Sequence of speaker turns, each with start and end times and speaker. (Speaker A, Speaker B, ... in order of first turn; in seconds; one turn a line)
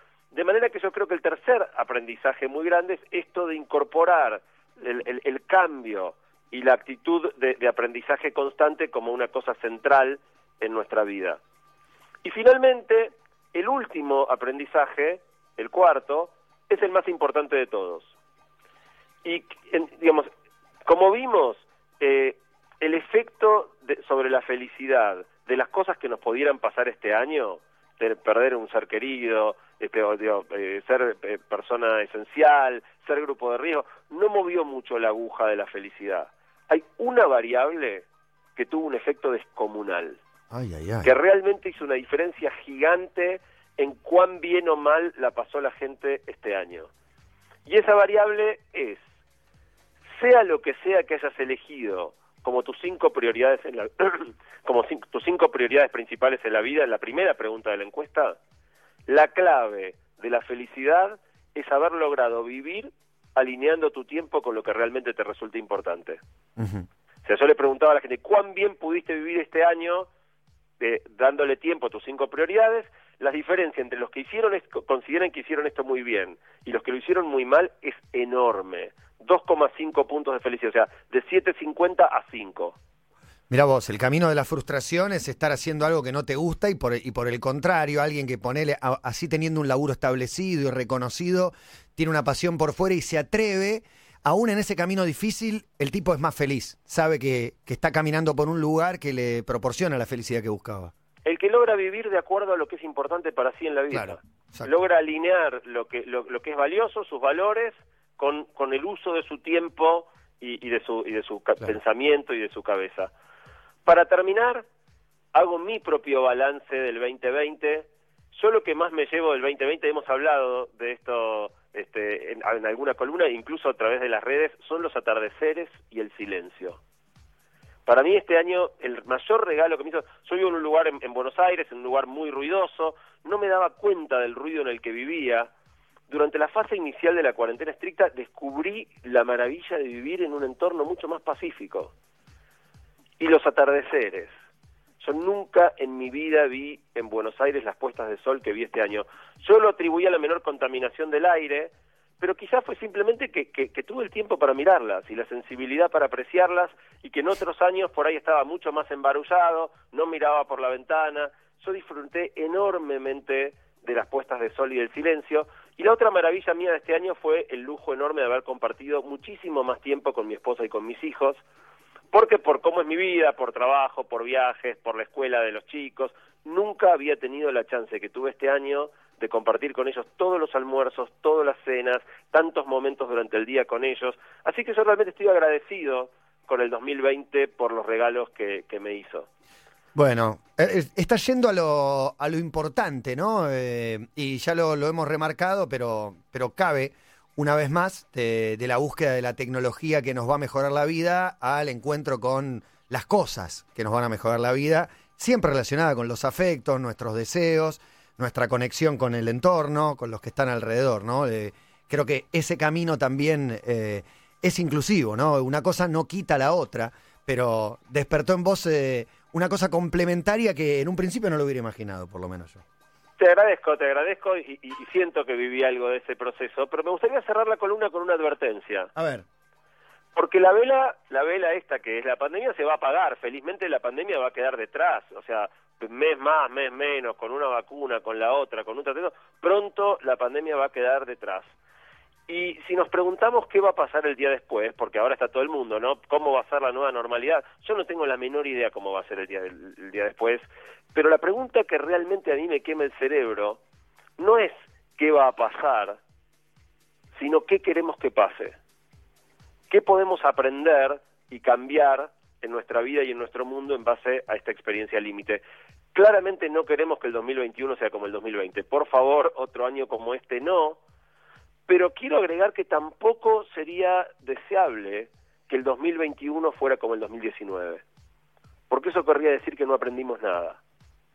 Speaker A: 0.3-11.4
Speaker A: 12.2-18.1
Speaker A: 19.2-20.3
Speaker A: 20.9-40.2
Speaker B: 40.5-41.1
Speaker A: 41.0-46.9
Speaker A: 47.6-49.1
Speaker A: 50.1-58.4
Speaker A: 59.1-66.2
Speaker B: 66.6-66.8
Speaker A: 67.2-70.1
Speaker A: 70.8-82.8
Speaker B: 83.5-100.9
Speaker A: 101.2-113.1
Speaker B: 103.9-104.7
Speaker A: 113.8-114.6
Speaker A: 115.3-126.8
Speaker A: 127.8-135.5
Speaker A: 136.1-141.9
Speaker A: 143.2-144.3
Speaker A: 145.0-171.4
Speaker A: 172.1-189.3
Speaker B: 189.9-222.6
Speaker A: 223.2-228.9
Speaker B: 228.9-229.2
Speaker A: 230.1-241.5
Speaker A: 242.3-253.6
Speaker A: 254.2-256.0
Speaker A: 257.1-258.6
Speaker A: 259.7-265.4
Speaker A: 265.9-270.8
Speaker A: 271.7-277.8
Speaker A: 278.7-280.6